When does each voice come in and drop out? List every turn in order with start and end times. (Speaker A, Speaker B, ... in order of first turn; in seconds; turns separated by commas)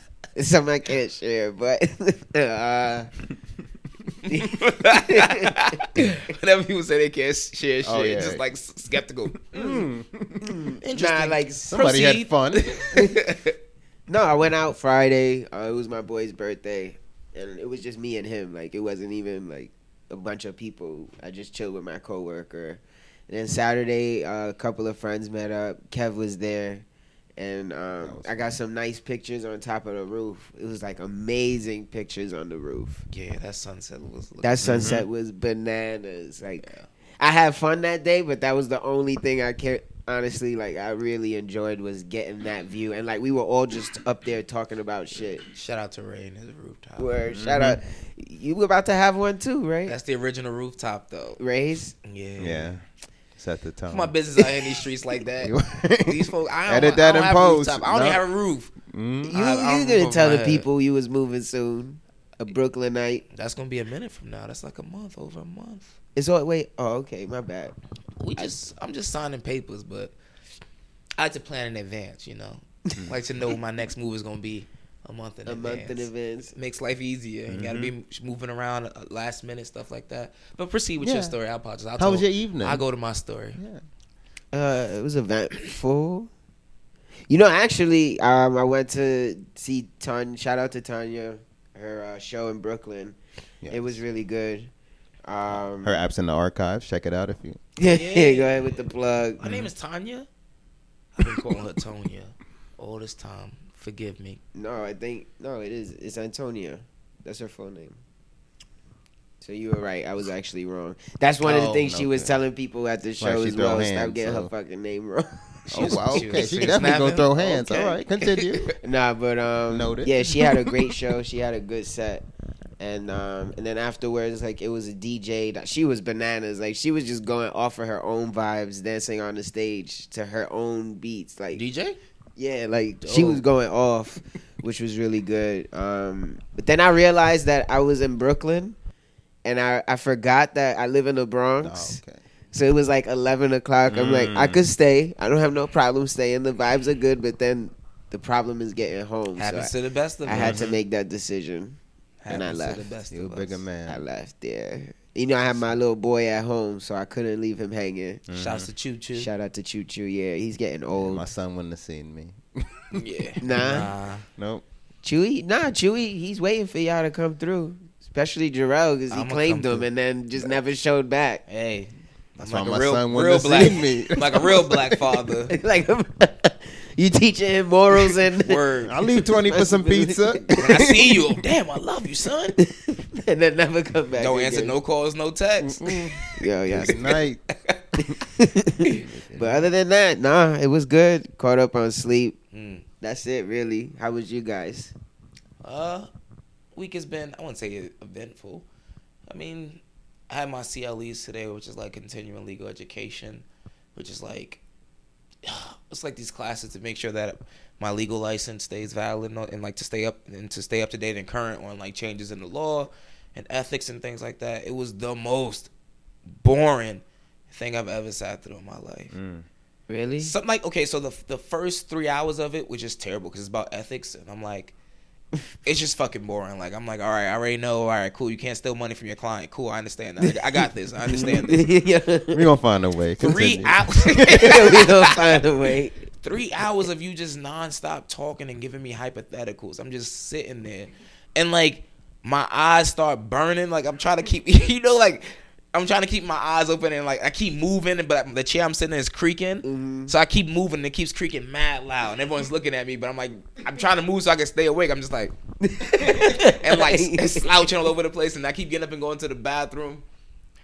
Speaker A: 0.4-3.1, Speaker A: 4.3-5.8, Speaker B: 4.3-9.9, Speaker C: 7.8-8.4, Speaker C: 9.5-10.5, Speaker A: 10.4-11.9, Speaker B: 10.8-13.6, Speaker C: 11.7-12.7, Speaker A: 14.1-26.9, Speaker A: 27.4-33.0, Speaker C: 28.0-28.4, Speaker B: 33.1-35.0, Speaker A: 34.4-45.4, Speaker C: 34.6-35.0, Speaker B: 45.5-47.1, Speaker A: 47.0-50.0, Speaker C: 47.3-47.8, Speaker B: 49.9-51.4, Speaker A: 51.4-52.0, Speaker B: 52.0-52.7, Speaker C: 52.4-52.8, Speaker C: 53.4-54.5, Speaker B: 53.9-55.5, Speaker C: 55.4-58.2, Speaker B: 56.0-58.7, Speaker C: 58.9-59.3, Speaker A: 59.3-63.2, Speaker B: 59.3-60.7, Speaker B: 63.3-66.0, Speaker A: 66.2-67.8, Speaker B: 68.2-70.2, Speaker B: 71.2-83.6, Speaker A: 75.5-76.5, Speaker C: 77.5-77.9, Speaker C: 81.0-81.3, Speaker C: 82.0-82.8, Speaker C: 83.6-83.8, Speaker A: 84.5-86.3, Speaker A: 87.3-93.2, Speaker C: 93.6-94.0, Speaker A: 93.7-94.7, Speaker A: 95.3-96.0, Speaker C: 95.5-97.6, Speaker A: 97.8-99.4, Speaker B: 97.8-98.9, Speaker B: 99.4-100.3, Speaker B: 101.2-104.4, Speaker A: 104.5-108.0, Speaker A: 109.4-116.8, Speaker B: 111.4-112.0, Speaker C: 111.9-112.3, Speaker C: 113.2-114.5, Speaker B: 115.7-118.8, Speaker C: 115.7-118.7, Speaker A: 117.4-118.0, Speaker A: 118.8-122.2, Speaker C: 119.7-120.1, Speaker A: 122.8-131.6, Speaker B: 131.5-132.0, Speaker A: 132.4-138.8, Speaker B: 133.0-133.4, Speaker A: 139.4-142.0, Speaker C: 141.6-142.2, Speaker A: 142.5-149.7, Speaker C: 143.9-144.6, Speaker B: 149.4-150.7, Speaker A: 150.3-151.8, Speaker C: 150.3-150.7, Speaker B: 152.2-153.6, Speaker A: 152.3-152.9, Speaker C: 153.1-154.0, Speaker A: 153.9-158.2, Speaker C: 158.3-158.7, Speaker B: 158.3-159.3, Speaker A: 159.2-161.2, Speaker C: 160.9-163.0, Speaker B: 162.9-164.3, Speaker A: 163.4-163.9, Speaker C: 164.4-164.6, Speaker A: 165.0-171.4, Speaker B: 169.1-169.9, Speaker B: 171.5-175.6, Speaker C: 172.4-175.0, Speaker A: 175.5-178.6, Speaker B: 178.2-179.0, Speaker C: 178.8-180.5, Speaker A: 179.3-181.2, Speaker B: 180.6-182.6, Speaker A: 182.6-184.8, Speaker B: 184.2-186.1, Speaker C: 185.6-187.4, Speaker A: 186.4-187.0, Speaker B: 186.9-187.8, Speaker A: 188.1-192.4, Speaker C: 189.1-189.6, Speaker B: 192.5-192.8, Speaker A: 193.0-194.9, Speaker B: 195.6-196.1, Speaker B: 196.7-198.7, Speaker B: 199.3-204.6, Speaker B: 205.4-215.7, Speaker B: 216.3-219.1, Speaker C: 219.1-219.5, Speaker A: 219.9-220.3, Speaker B: 220.2-224.7, Speaker B: 225.7-231.7, Speaker A: 231.0-232.4, Speaker C: 232.3-234.5, Speaker B: 233.2-235.4, Speaker A: 234.3-236.0, Speaker B: 236.2-255.3, Speaker A: 249.6-250.2, Speaker A: 255.6-257.7, Speaker B: 256.0-260.0